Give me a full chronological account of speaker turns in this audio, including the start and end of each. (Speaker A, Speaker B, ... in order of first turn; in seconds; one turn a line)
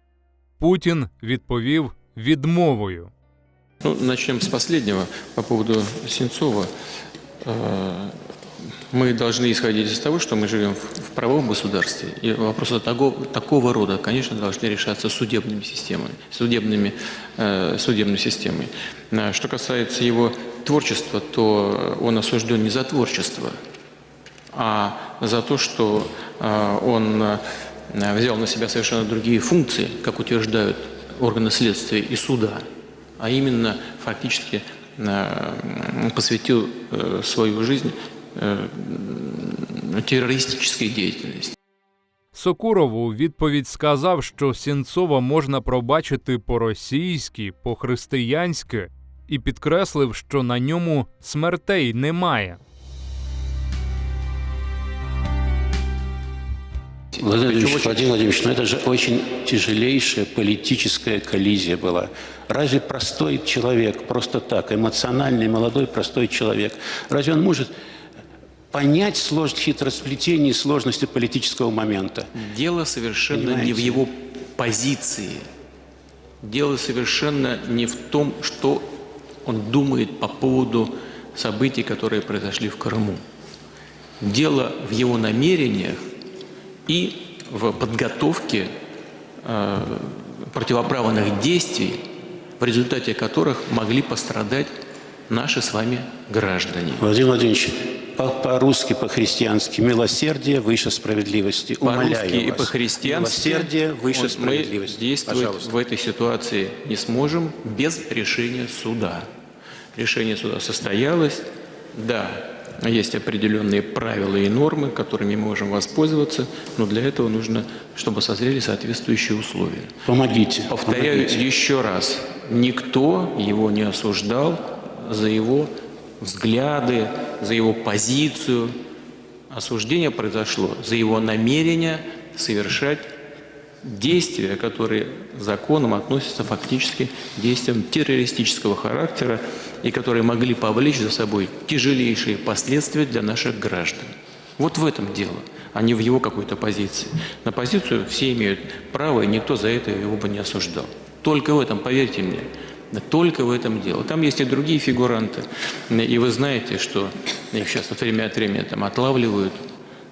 Speaker A: 0.6-3.1
Speaker B: 3.8-6.7
Speaker B: 7.4-8.2
Speaker B: 8.9-23.6
Speaker B: 24.5-32.6
Speaker B: 33.2-41.6
Speaker A: 42.3-52.6
Speaker C: 57.1-67.7
Speaker C: 68.7-72.3
Speaker B: 72.3-75.5
Speaker C: 73.3-74.0
Speaker B: 76.4-78.9
Speaker B: 79.5-83.2
Speaker B: 84.2-86.1
Speaker B: 86.9-88.7
Speaker B: 89.4-92.1
Speaker B: 92.6-94.7
Speaker B: 95.3-97.0
Speaker C: 97.0-105.8
Speaker B: 101.8-109.3
Speaker B: 109.9-119.9
Speaker C: 120.1-121.4
Speaker B: 120.7-128.8
Speaker B: 129.5-133.1
Speaker B: 133.8-159.6